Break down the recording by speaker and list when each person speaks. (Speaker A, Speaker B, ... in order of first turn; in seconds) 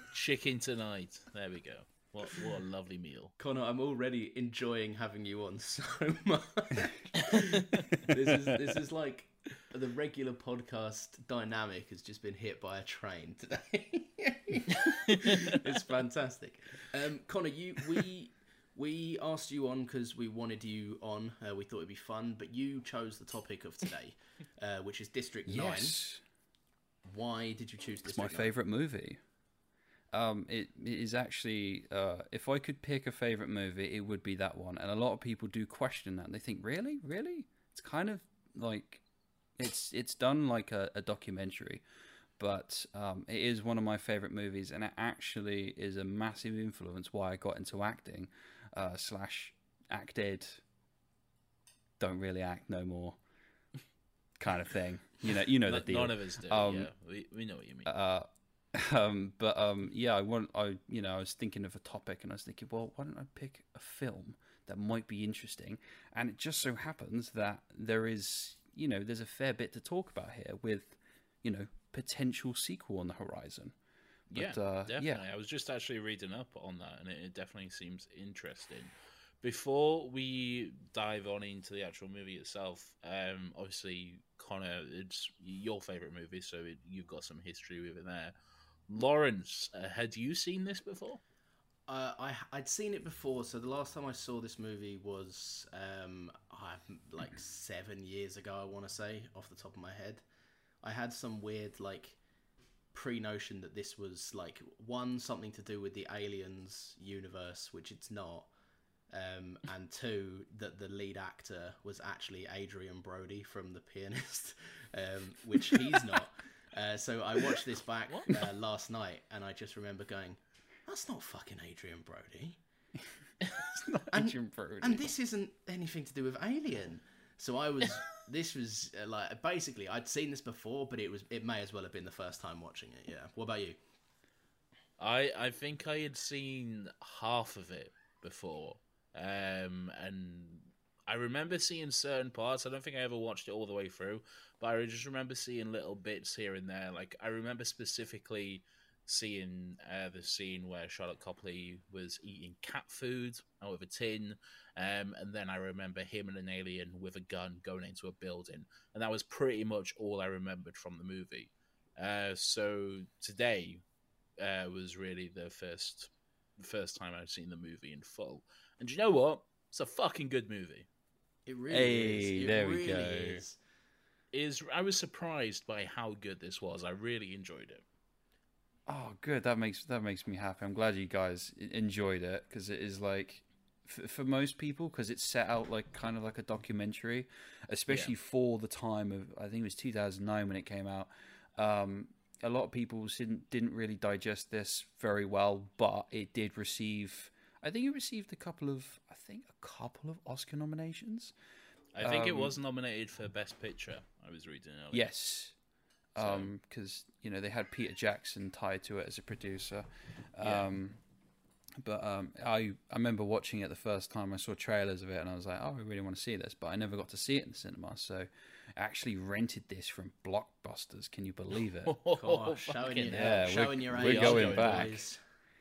Speaker A: 0.1-3.3, 55.6-57.9, 74.3-88.3, 88.9-91.2, 118.1-118.4, 135.0-163.8, 164.4-170.9, 174.3-177.8, 201.9-205.1, 206.2-206.5, 210.4-210.7, 221.8-225.0
Speaker B: 3.4-25.9, 27.0-28.5, 91.9-100.2, 100.8-102.2, 102.9-108.5, 109.1-122.6, 124.1-133.8, 171.4-173.6, 222.1-225.2
Speaker C: 25.4-26.2, 28.1-29.2, 30.1-39.0, 39.6-41.8, 42.4-50.6, 52.0-53.2, 54.4-56.9, 57.9-73.7, 74.3-75.2, 123.7-125.1, 171.7-173.4, 178.9-201.3, 202.0-202.6, 204.9-205.5, 206.1-211.0, 211.8-222.0, 223.1-225.0